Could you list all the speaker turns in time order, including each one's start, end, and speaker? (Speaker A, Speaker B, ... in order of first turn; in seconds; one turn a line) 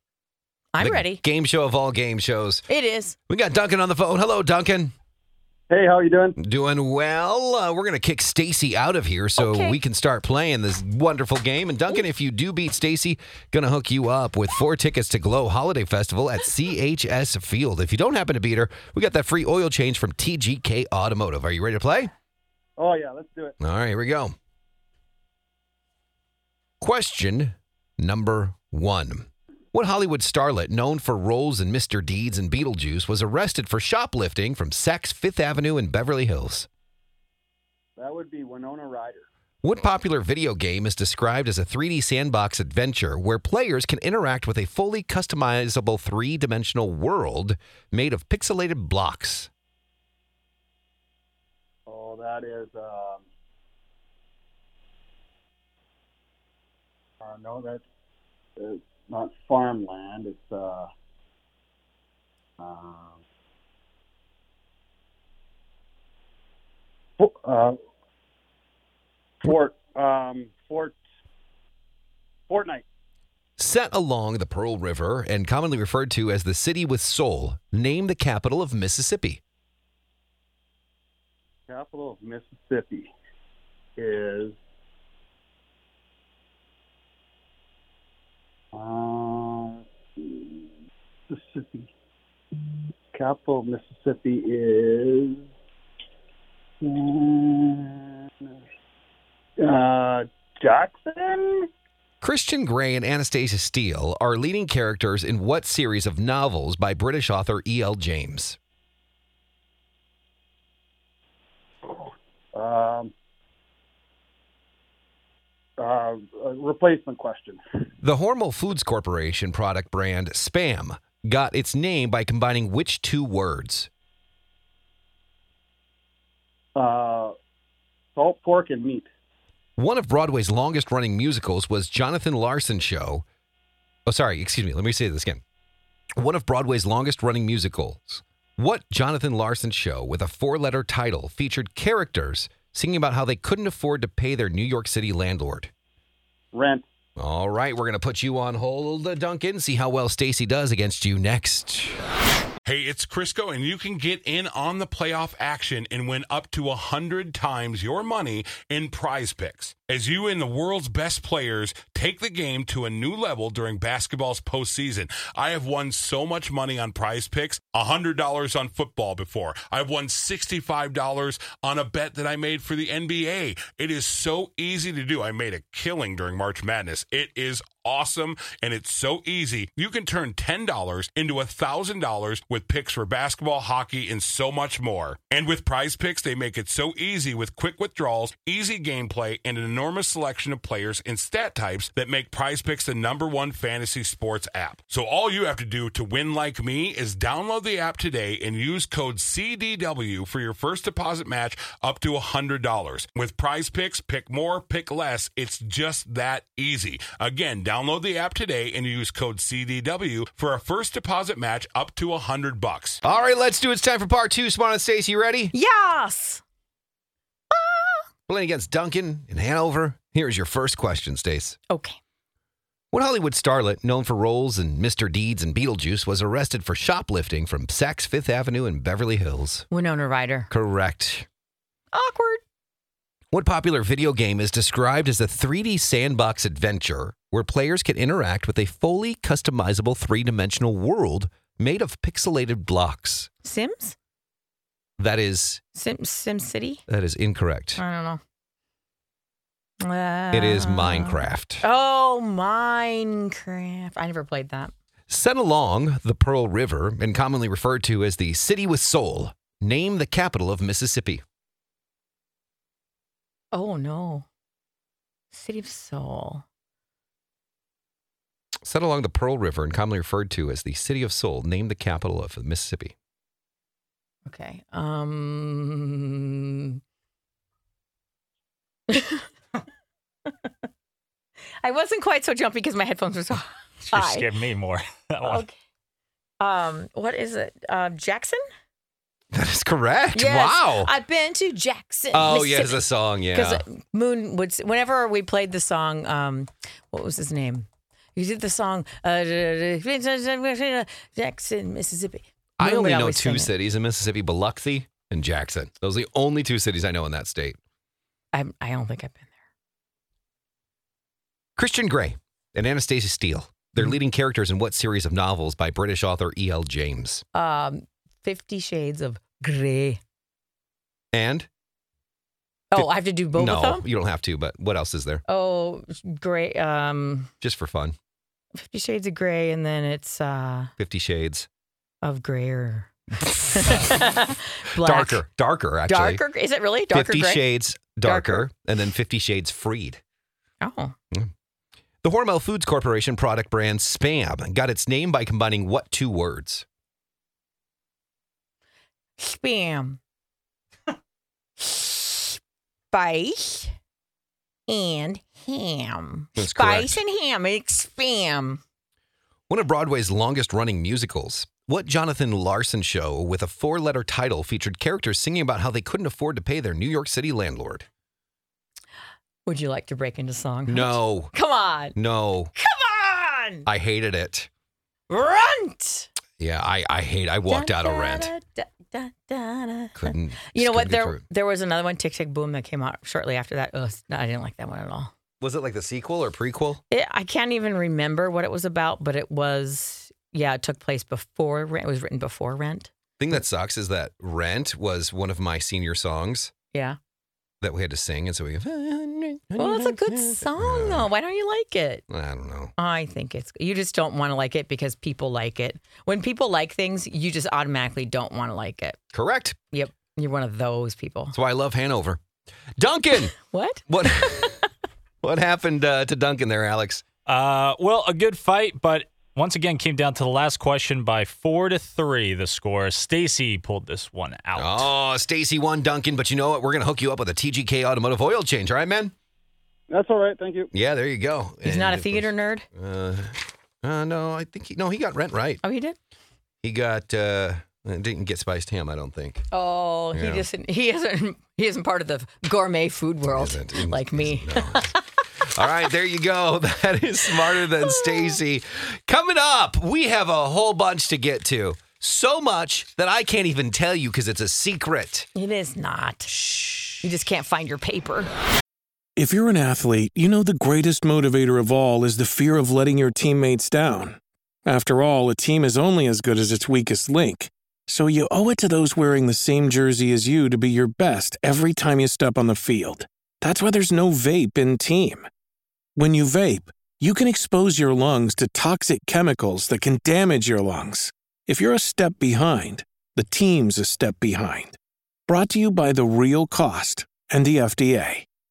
Speaker A: 0.7-1.2
Speaker B: 0.8-2.7
Speaker A: 2.7-3.2
Speaker B: 3.3-4.9
Speaker C: 5.7-6.4
Speaker B: 6.4-22.1
Speaker A: 9.4-9.8
Speaker C: 22.8-23.6
Speaker B: 23.6-24.3
Speaker B: 26.8-36.7
Speaker C: 38.0-39.3
Speaker B: 39.6-49.5
Speaker C: 51.9-53.2
Speaker C: 57.2-57.8
Speaker C: 58.6-60.9
Speaker C: 62.6-63.2
Speaker C: 67.2-67.8
Speaker C: 69.4-71.0
Speaker C: 72.5-72.8
Speaker B: 73.6-79.4
Speaker C: 81.7-83.1
Speaker C: 84.0-84.6
Speaker C: 88.7-90.6
Speaker C: 91.3-91.9
Speaker C: 93.1-95.5
Speaker C: 96.8-98.0
Speaker C: 99.6-101.6
Speaker B: 102.2-108.6
Speaker C: 112.5-113.1
Speaker C: 115.8-117.6
Speaker B: 118.0-123.9
Speaker C: 126.8-127.3
Speaker C: 128.2-129.1
Speaker B: 129.8-133.2
Speaker B: 134.1-135.4
Speaker B: 136.2-145.7
Speaker C: 146.5-146.8
Speaker B: 147.2-152.0
Speaker D: 152.7-213.0
Speaker B: 213.0-215.5
Speaker A: 215.5-216.4
Speaker A: 217.5-218.1
Speaker B: 218.3-221.6
Speaker A: 221.7-222.0
Speaker B: 222.9-229.7
Speaker A: 229.7-230.5
Speaker B: 230.5-231.3
Speaker A: 231.9-232.4
Speaker B: 233.3-243.3
Speaker A: 243.4-244.0
Speaker B: 245.0-245.6
Speaker A: 245.8-246.8
Speaker B: 246.9-247.8
Speaker A: 247.8-248.2
Speaker A: 249.8-254.7
Speaker B: 250.3-251.6
Speaker B: 255.1-261.2
Speaker A: 263.5-264.3
Speaker A: 265.3-266.4
Speaker B: 268.6-272.9
Speaker A: 274.3-276.8
Speaker A: 278.9-279.3
Speaker A: 281.6-284.3
Speaker E: 283.9-285.5
Speaker A: 286.4-288.4
Speaker B: 289.3-290.9
Speaker A: 290.1-292.8
Speaker B: 292.1-293.6
Speaker A: 293.3-303.5
Speaker B: 302.6-307.6
Speaker A: 308.3-309.3
Speaker B: 311.6-317.2
Speaker A: 317.4-320.0
Speaker B: 321.1-321.5
Speaker A: 322.7-323.8
Speaker B: 322.8-325.2
Speaker A: 325.3-327.3
Speaker B: 327.4-328.0
Speaker A: 328.6-330.7
Speaker B: 330.8-331.5
Speaker A: 332.0-332.9
Speaker B: 333.2-334.0
Speaker A: 333.6-335.2
Speaker B: 334.8-336.2
Speaker A: 335.9-337.4
Speaker B: 336.9-340.0
Speaker A: 338.1-338.5
Speaker A: 340.6-340.9
Speaker B: 342.0-346.6
Speaker A: 349.2-350.0
Speaker A: 351.6-352.4
Speaker A: 352.9-353.8
Speaker A: 354.7-358.6
Speaker B: 356.4-357.0
Speaker B: 359.5-367.9
Speaker A: 369.5-372.0
Speaker B: 370.7-371.3
Speaker B: 371.9-372.5
Speaker A: 372.6-373.6
Speaker B: 373.7-374.5
Speaker A: 375.1-376.1
Speaker B: 376.4-378.3
Speaker A: 377.5-385.1
Speaker B: 380.0-381.2
Speaker B: 385.4-386.8
Speaker A: 386.9-392.9
Speaker B: 393.2-396.5
Speaker A: 396.7-397.0
Speaker B: 397.6-401.1
Speaker A: 399.6-402.0
Speaker B: 402.1-402.7
Speaker A: 402.8-409.0
Speaker B: 409.1-409.6
Speaker A: 409.7-411.4
Speaker B: 411.3-412.2
Speaker B: 412.8-413.4
Speaker A: 413.5-414.6
Speaker B: 413.9-414.6
Speaker B: 415.2-417.1
Speaker E: 417.3-424.9
Speaker B: 424.6-429.1
Speaker C: 429.9-430.7
Speaker B: 430.7-435.6
Speaker A: 431.7-432.7
Speaker A: 435.6-436.0
Speaker B: 436.6-439.5
Speaker A: 439.5-445.0
Speaker B: 440.1-440.5
Speaker B: 443.2-455.3
Speaker A: 455.4-456.3
Speaker B: 456.3-457.0
Speaker A: 457.0-458.3
Speaker F: 459.2-475.3
Speaker F: 476.0-488.3